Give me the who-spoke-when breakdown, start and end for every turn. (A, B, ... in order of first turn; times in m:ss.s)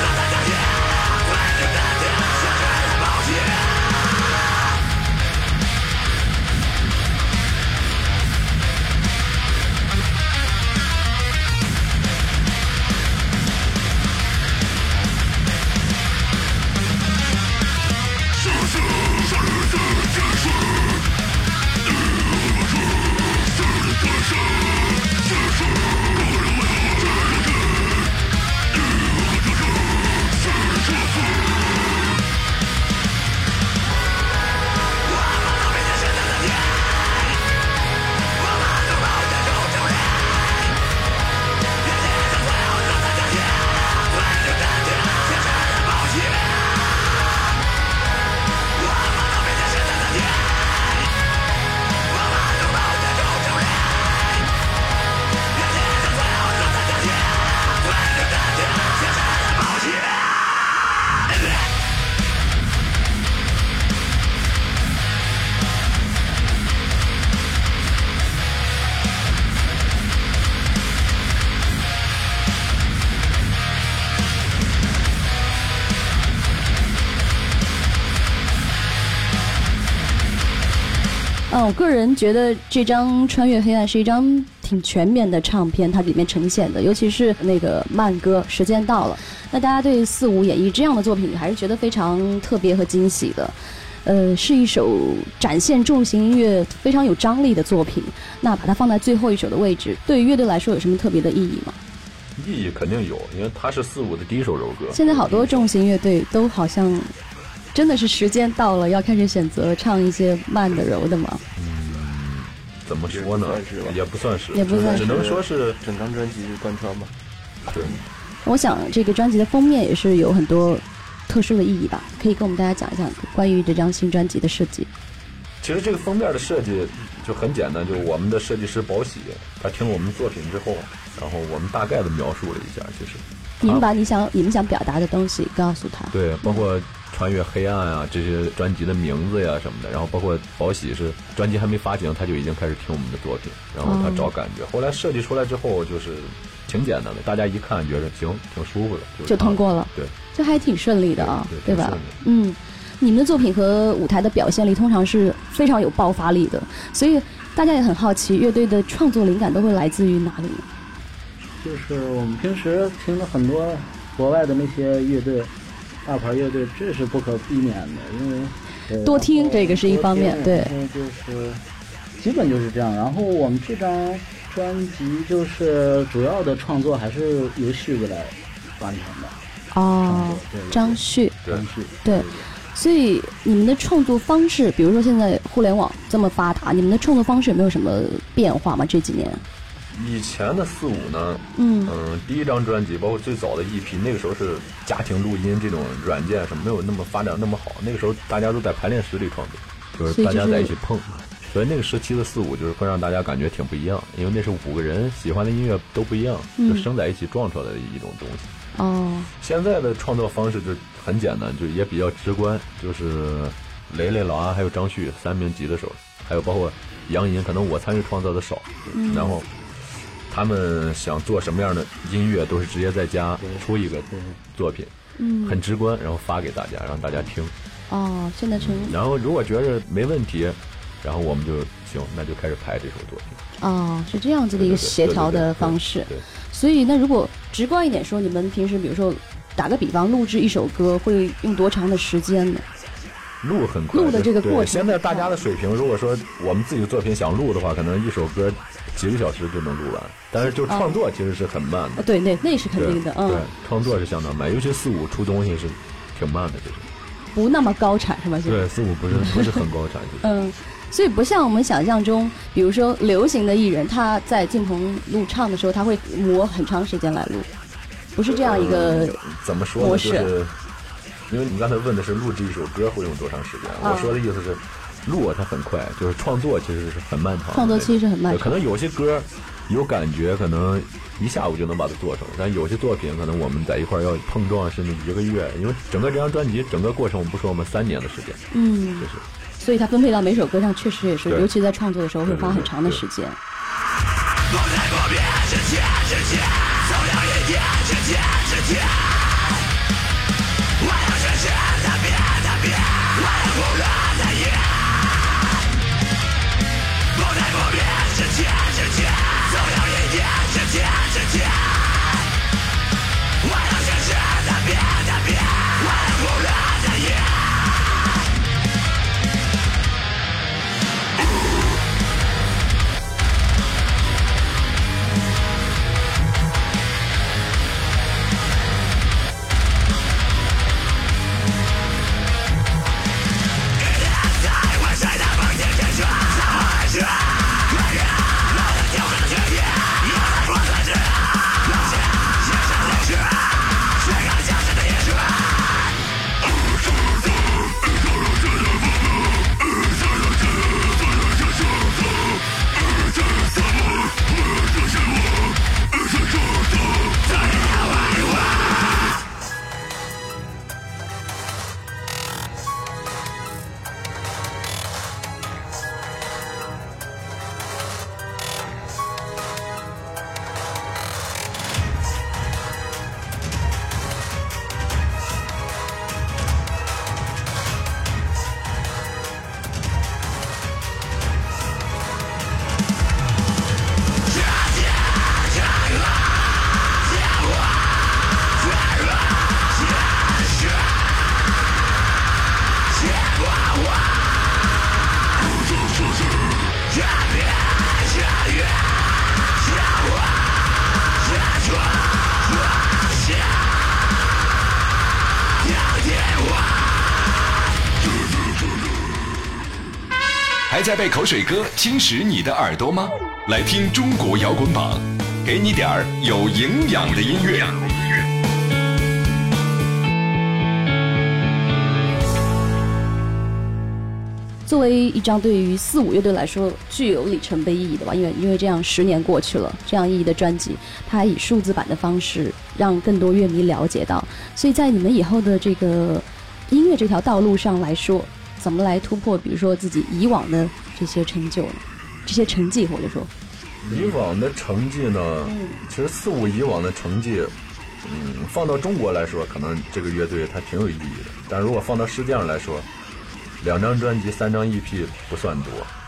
1:21.5-1:41.8 A
1:42.4-1:45.7 B
1:44.9-1:47.1 A
1:47.7-1:51.4 A
1:51.5-1:55.8 B
1:53.1-1:54.0 C
1:54.5-1:55.1 A
1:54.6-1:57.1 C
1:57.7-1:58.0 B
1:58.4-2:04.9 A
2:05.6-2:13.9 B
2:13.6-2:16.6 A
2:16.1-2:30.1 B
2:23.8-2:24.3 A
2:29.3-2:40.6 A
2:31.2-2:32.2 B
2:41.6-2:45.5 D
2:46.0-2:51.6 D
2:49.0-2:50.7 A
2:52.2-2:59.4 D
2:59.7-3:01.4 A
3:00.0-3:02.5 D
3:02.0-3:09.4 A
3:09.9-3:28.5 B
3:11.5-3:11.9 A
3:20.1-3:20.7 A
3:26.6-3:26.8 A
3:28.7-3:29.3 A
3:29.4-3:39.5 B
3:38.9-3:39.3 A
3:40.3-3:47.5 B
3:43.4-3:44.4 D
3:45.2-3:45.6 A
3:47.9-3:49.0 A
3:48.6-3:53.4 B
3:53.6-4:02.6 A
3:54.5-3:56.2 B
4:03.4-4:12.1 B
4:03.9-4:05.3 A
4:10.6-4:10.9 A
4:12.0-4:13.5 A
4:12.8-4:16.9 B
4:17.3-4:19.6 A
4:18.4-4:20.2 B
4:20.2-4:27.5 A
4:28.1-4:29.2 A
4:28.2-4:30.6 B
4:29.8-4:30.3 A
4:31.3-4:48.4 B
4:33.8-4:34.1 A
4:37.5-4:38.6 A
4:48.5-4:49.1 A
4:49.0-4:49.2 B
4:49.6-4:53.4 A
4:52.2-4:53.0 B
6:50.7-6:58.0 E
7:04.6-7:23.3 A
7:23.8-7:32.9 B
7:25.4-7:25.8 A
7:33.6-7:35.9 B